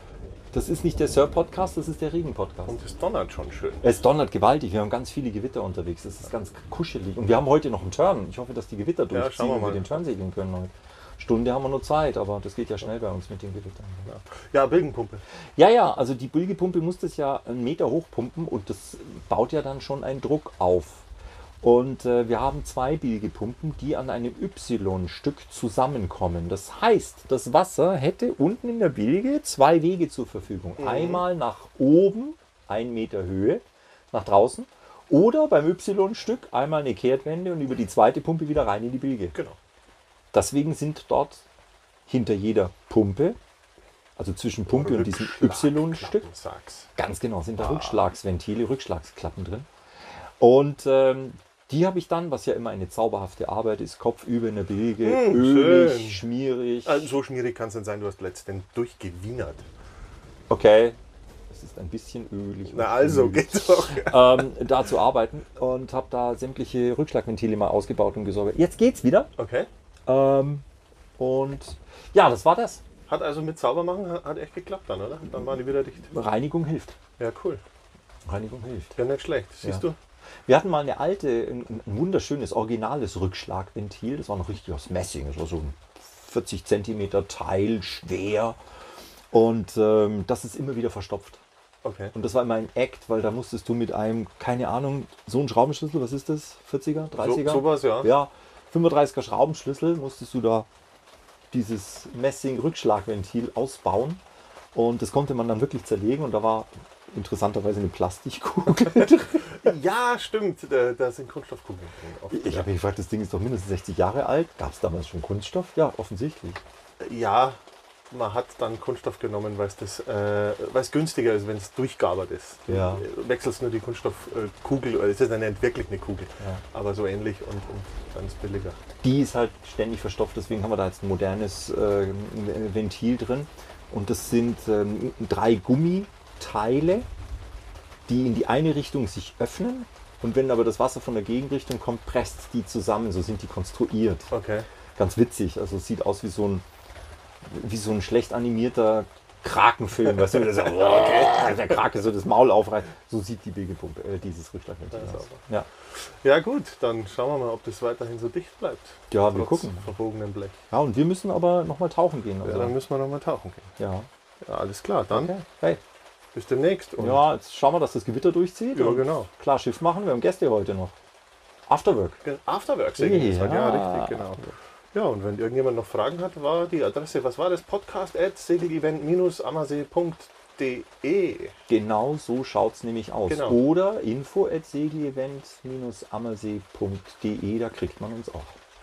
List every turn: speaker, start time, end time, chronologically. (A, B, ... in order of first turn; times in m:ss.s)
0:00.5-0:02.8 A
0:02.7-0:03.8 B
0:03.8-0:14.1 A
0:09.1-0:10.0 B
0:14.1-0:15.2 B
0:15.6-0:21.1 A
0:21.6-0:39.4 A
0:30.8-0:31.2 B
0:40.3-0:41.4 A
0:42.1-0:43.4 A
0:44.2-0:46.3 A
0:44.7-0:46.9 B
0:46.9-0:49.7 A
0:47.6-0:48.0 B
0:50.4-0:57.2 A
0:55.0-0:56.2 B
0:56.8-0:59.6 B
1:00.5-1:01.0 A
1:01.5-1:09.3 A
1:02.7-1:04.5 B
1:09.4-1:09.7 B
1:10.1-1:10.6 A
1:11.2-1:12.8 A
1:13.1-1:16.1 B
1:16.1-1:17.0 A
1:17.2-1:17.6 B
1:18.2-1:19.0 A
1:18.9-1:20.0 B
1:20.5-1:28.6 A
1:29.3-1:31.4 A
1:31.8-1:32.1 B
1:32.1-1:40.7 A
1:37.2-1:38.1 B
1:41.5-1:44.2 A
1:44.7-1:49.7 A
1:49.0-1:52.7 B
1:52.3-1:56.6 A
1:57.0-2:08.8 B
2:02.7-2:03.0 A
2:09.0-2:17.1 A
2:18.1-2:24.3 A
2:24.3-2:24.7 B
2:25.0-2:26.6 A
2:27.4-2:35.7 A
2:30.0-2:31.8 B
2:34.9-2:35.4 B
2:35.9-2:40.6 B
2:39.1-2:39.9 A
2:40.7-2:42.7 A
2:42.4-2:43.7 B
2:43.8-2:44.1 A
2:44.4-2:45.3 B
2:45.1-2:45.8 A
2:46.3-2:47.2 B
2:47.0-2:50.9 A
2:48.7-2:49.3 B
2:51.7-2:52.2 A
2:52.2-3:01.5 B
2:53.0-2:54.5 A
3:01.7-3:08.6 A
3:03.3-3:03.6 B